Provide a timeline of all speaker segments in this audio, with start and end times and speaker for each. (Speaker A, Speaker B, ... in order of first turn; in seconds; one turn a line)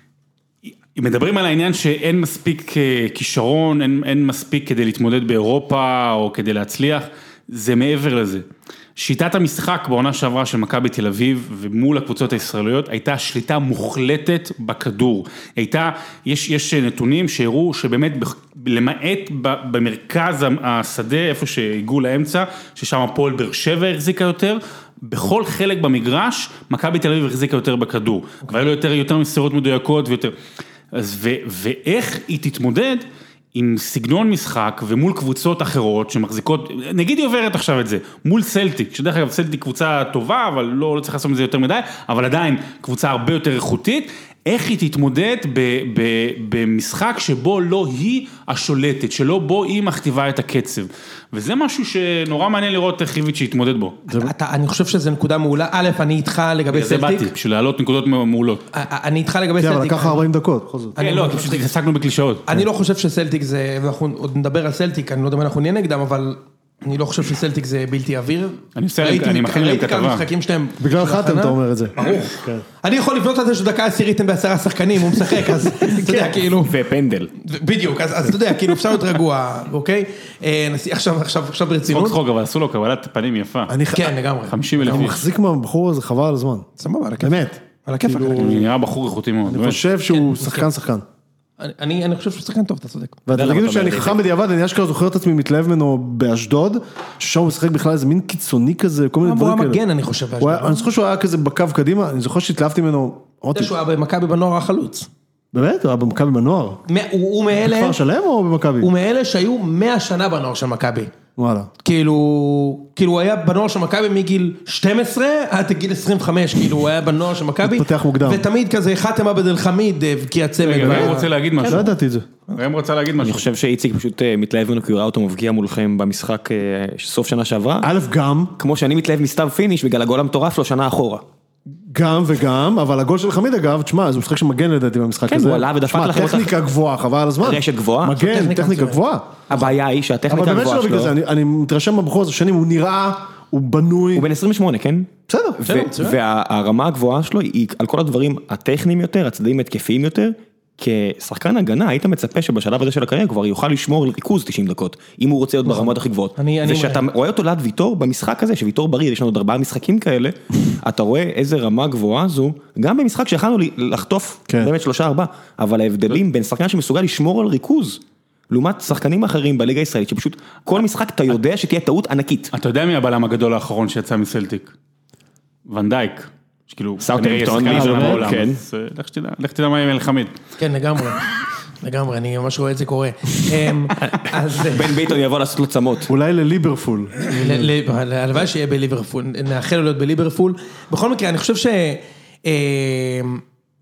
Speaker A: 0.9-8.4
Speaker A: 8.9-30.3
Speaker A: 30.9-54.0
Speaker B: 54.1-57.3
Speaker A: 56.7-58.6
Speaker B: 58.7-60.3
Speaker C: 59.6-61.0
Speaker B: 61.0-61.7
Speaker A: 61.0-62.5
Speaker B: 62.5-76.8
Speaker A: 68.8-70.3
Speaker C: 70.8-72.6
Speaker D: 75.8-77.3
Speaker B: 77.4-82.2
Speaker A: 81.9-83.7
Speaker C: 83.7-84.1
Speaker B: 83.9-85.1
Speaker A: 84.5-85.2
Speaker C: 84.8-86.7
Speaker B: 86.8-88.6
Speaker C: 87.2-88.6
Speaker A: 88.4-89.8
Speaker C: 89.5-91.0
Speaker B: 90.1-90.7
Speaker B: 91.6-93.2
Speaker C: 93.3-99.8
Speaker D: 93.3-94.2
Speaker B: 99.2-100.9
Speaker C: 100.4-103.7
Speaker B: 103.5-105.1
Speaker C: 105.5-106.8
Speaker B: 106.9-108.0
Speaker C: 107.6-108.9
Speaker B: 108.8-111.1
Speaker C: 111.4-111.7
Speaker B: 111.8-121.9
Speaker C: 117.6-118.5
Speaker A: 120.6-121.9
Speaker C: 120.8-122.3
Speaker A: 122.6-123.5
Speaker D: 123.2-127.9
Speaker C: 127.8-128.6
Speaker D: 128.6-131.2
Speaker C: 131.9-139.4
Speaker D: 135.3-136.5
Speaker D: 137.4-138.2
Speaker B: 138.2-139.0
Speaker D: 139.5-141.1
Speaker C: 140.3-144.3
Speaker D: 144.1-172.5
Speaker C: 145.3-145.6
Speaker B: 145.6-146.2
Speaker B: 155.6-157.1
Speaker A: 172.5-174.7
Speaker A: 175.7-180.3
Speaker D: 177.0-178.6
Speaker C: 177.7-178.3
Speaker B: 180.6-181.2
Speaker B: 181.8-185.1
Speaker D: 184.6-186.1
Speaker C: 186.1-187.7
Speaker B: 187.3-193.4